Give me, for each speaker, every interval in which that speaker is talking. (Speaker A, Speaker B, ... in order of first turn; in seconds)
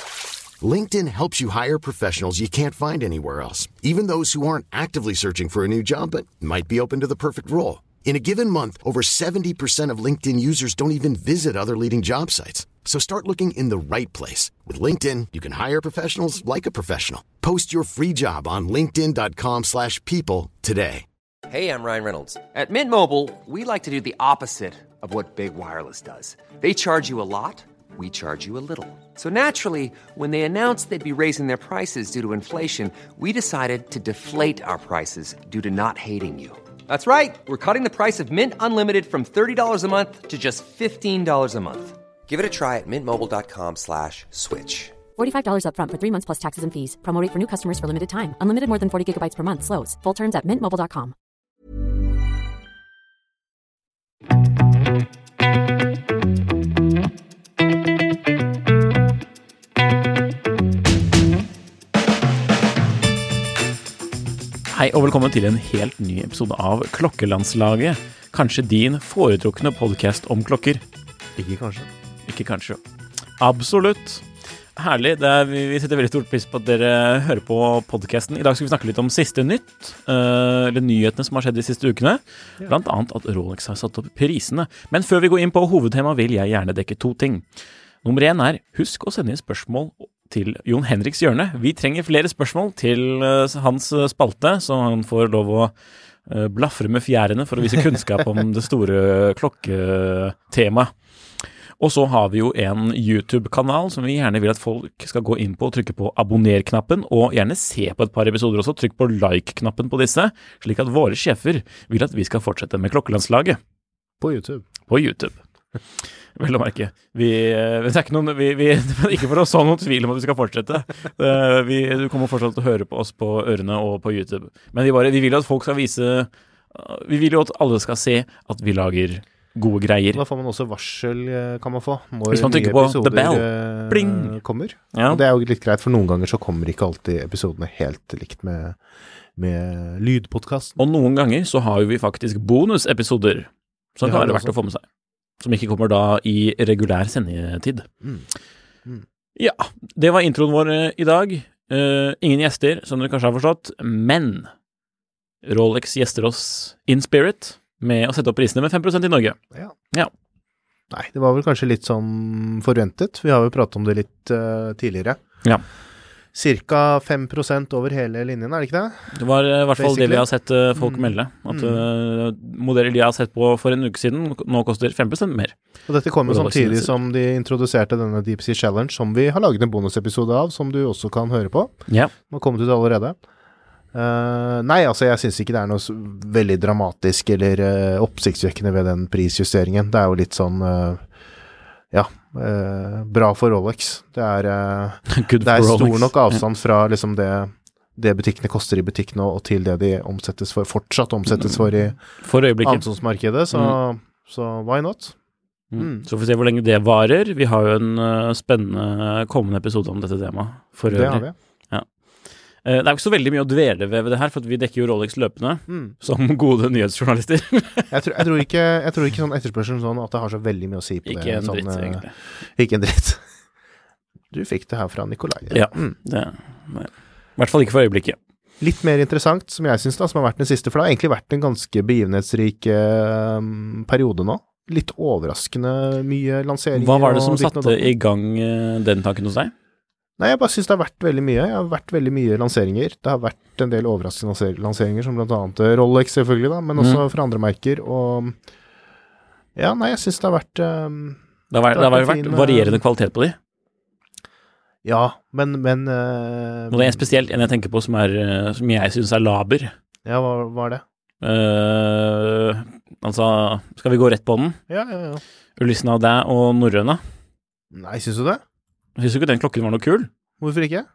Speaker A: 0.6-21.0
Speaker B: 21.5-45.0
Speaker C: 45.2-51.1
Speaker D: 64.7-70.8, 72.2-72.8, 73.4-87.5, 88.0-95.7, 96.2-100.9, 101.4-113.6, 114.9-115.4, 116.0-130.2, 132.3-134.4, 134.9-135.2, 140.8-144.8, 145.4-147.9, 149.3-154.5, 155.4-159.4, 169.1-175.5, 176.3-176.9, 195.1-196.4, 201.3-202.8, 203.5-203.8, 205.7-211.9, 212.6-217.9, 221.1-222.1, 225.5-228.2, 236.7-239.5, 246.8-247.0, 251.5-253.4, 256.7-259.7, 261.2-264.6, 265.6-267.0, 269.0-270.1
Speaker E: 71.3-71.9, 114.2-114.7, 130.1-138.8, 139.3-140.8, 144.0-144.6, 148.0-148.3, 160.9-165.2, 166.3-169.1, 169.8-171.8, 175.9-183.2, 183.9-191.0, 191.9-202.0, 202.6-205.2, 205.8-206.1, 210.9-211.3, 215.7-215.9, 217.9-223.2, 224.3-225.9, 228.6-237.9, 240.2-248.4, 249.6-251.2, 251.7-252.8, 254.8-257.4, 260.0-260.8, 264.7-265.2, 267.7-268.4, 270.4-270.9